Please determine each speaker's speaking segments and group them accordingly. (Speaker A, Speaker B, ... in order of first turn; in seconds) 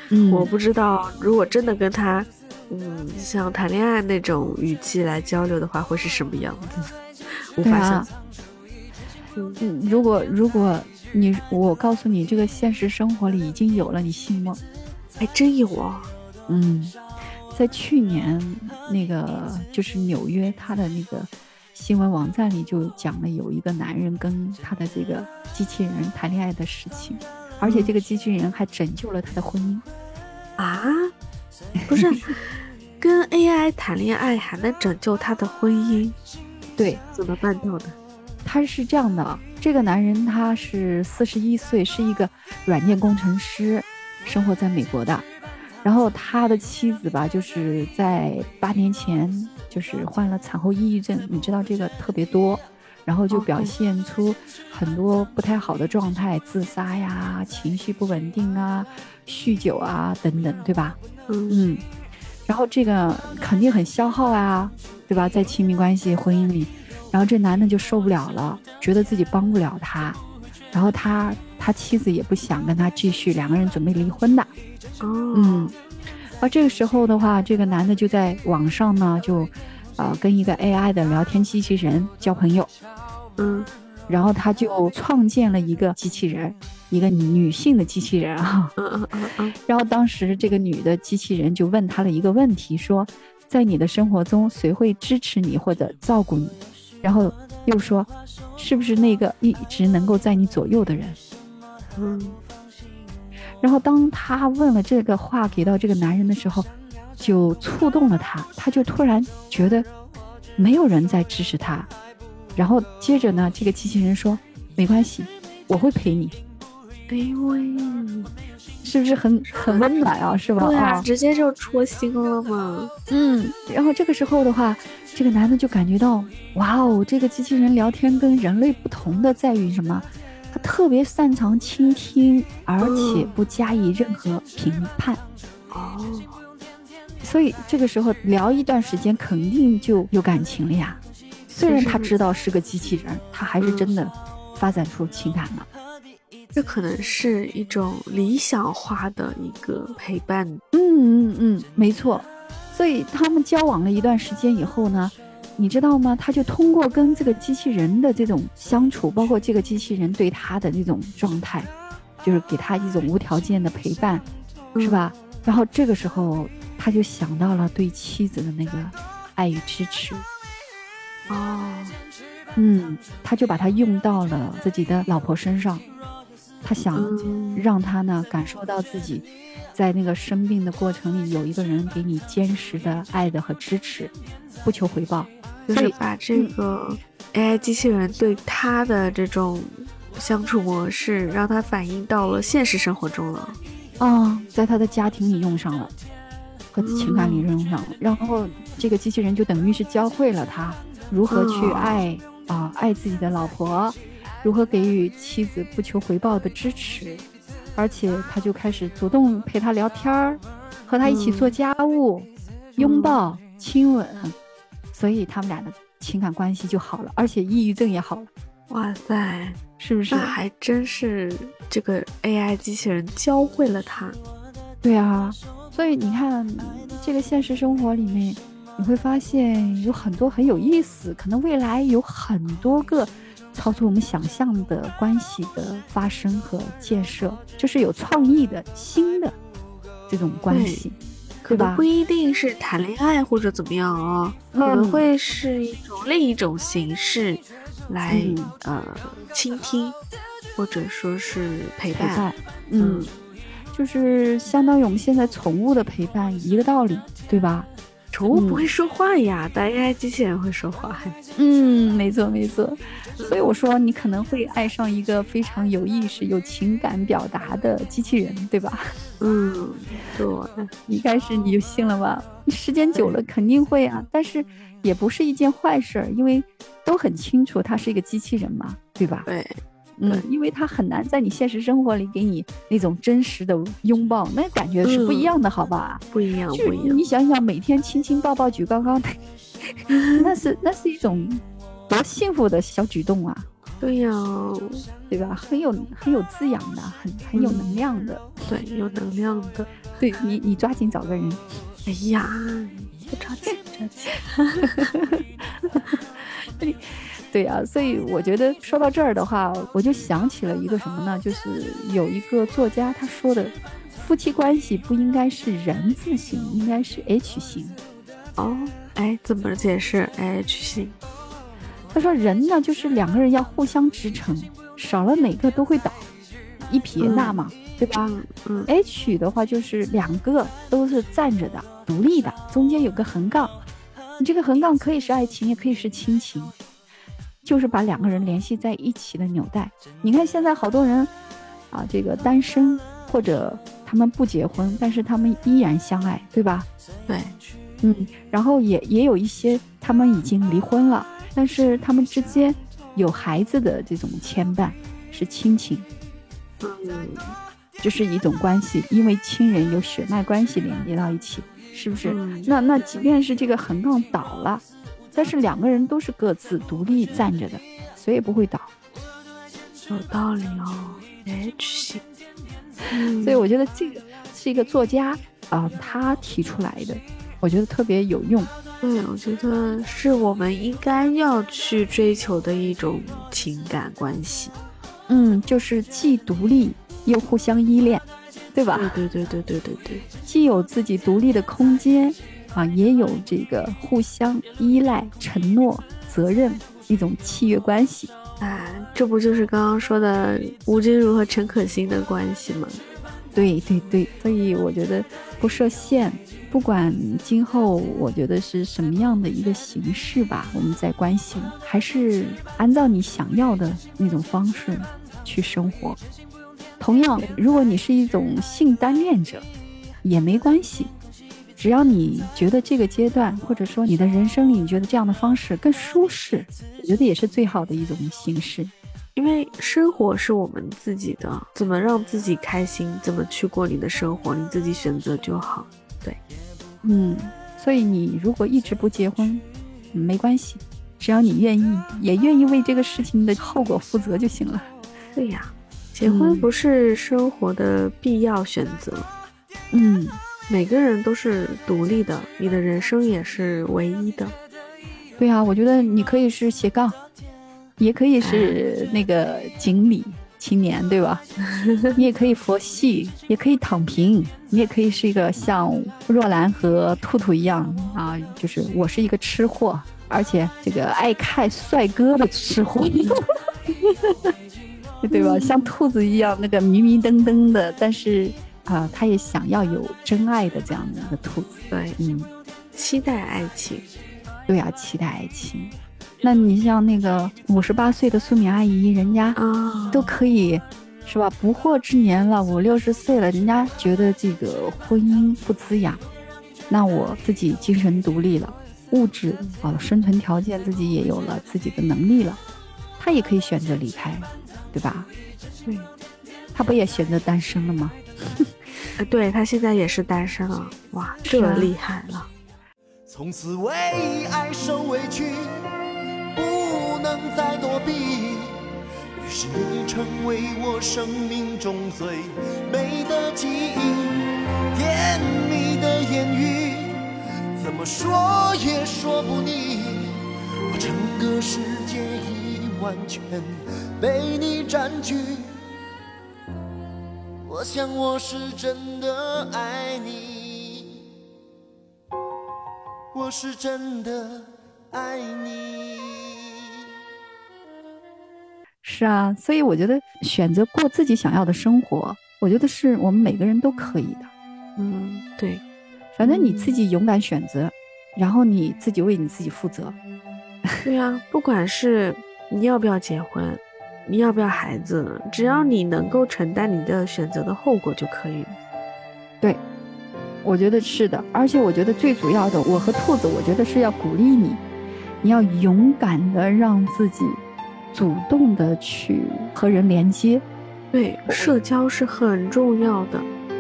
Speaker A: 0.1-0.5, 7.6-8.1, 9.6-14.6, 16.5-17.0, 17.5-29.8, 36.8-37.0, 38.4-45.3, 45.8-61.0, 61.5-61.8, 62.5-70.2, 70.7-74.5, 75.3-75.7, 76.4-82.7, 84.1-88.8, 89.7-101.2, 103.6-109.9, 110.6-111.9, 112.6-116.3, 118.8-121.1, 123.1-135.2, 137.2-141.0, 141.5-145.7, 150.7-161.7, 162.2-164.2, 164.8-170.3, 172.6-175.8, 176.6-184.1, 184.6-186.5, 194.0-195.9, 196.7-207.2, 207.8-214.3, 214.9-218.3, 219.8-220.3, 224.8-239.4, 240.1-241.0, 241.5-241.8, 244.5-245.1, 248.1-248.5, 251.9-253.1, 253.7-257.7, 258.3-258.7, 261.4-268.9, 270.9-279.3, 280.0-286.0, 286.5-293.5, 295.1-298.3, 300.0-301.4, 305.7-317.8, 321.9-326.1, 326.6-328.1, 328.7-333.5, 334.2-336.5, 337.4-341.1, 341.7-346.7, 347.8-355.9, 357.8-368.7, 373.2-378.5, 385.1-388.9, 390.3-398.1, 403.3-416.0, 416.8-419.5, 420.0-420.9, 421.6-428.7, 436.8-444.7, 446.0-446.5, 449.7-450.2, 455.2-457.0, 457.8-461.3, 462.0-473.3, 475.0-482.3, 484.5-489.4, 489.9-496.0, 496.7-502.4, 503.0-505.1, 506.5-508.5, 511.2-511.7, 548.8-554.3, 556.2-560.0, 570.4-574.6, 575.2-577.4, 577.9-580.4, 581.3-581.5
Speaker B: 0.3-6.9, 7.5-8.1, 9.3-9.6, 15.2-16.1, 27.6-27.9, 30.6-31.1, 31.9-36.2, 37.1-38.0, 53.3-53.7, 61.3-61.6, 75.0-75.7, 83.4-83.7, 88.8-89.6, 102.0-102.4, 117.1-118.3, 119.5-119.9, 120.6-122.9, 132.8-133.3, 135.7-136.4, 141.6-142.1, 143.6-143.9, 146.6-150.6, 164.8-165.1, 171.3-171.9, 176.9-177.7, 185.7-193.6, 196.8-197.4, 201.3-202.0, 211.1-211.6, 212.8-213.2, 218.7-219.6, 220.1-224.2, 240.5-240.8, 241.4-250.0, 250.6-252.2, 252.8-253.1, 258.1-261.2, 263.2-263.5, 269.2-270.7, 279.3-280.3, 284.8-285.3, 286.1-287.0, 289.9-290.3, 293.8-294.8, 297.4-297.8, 298.5-299.7, 301.9-305.0, 318.4-321.0, 327.0-327.4, 328.0-328.7, 347.1-347.4, 356.6-357.4, 362.1-363.1, 369.9-372.0, 372.9-373.4, 378.8-384.5, 388.8-390.0, 398.4-402.8, 429.2-436.2, 445.2-449.1, 450.5-454.3, 458.2-458.6, 461.4-462.0, 475.1-475.7, 481.7-482.0, 482.8-483.9, 489.4-490.1, 509.0-512.3, 554.8-555.6, 556.2-556.8, 560.8-568.6, 580.9-583.3
Speaker C: 513.4-514.9, 519.4-522.2, 523.6-524.1, 524.9-526.5, 527.6-529.4, 530.8-533.4, 534.1-535.4, 537.5-538.9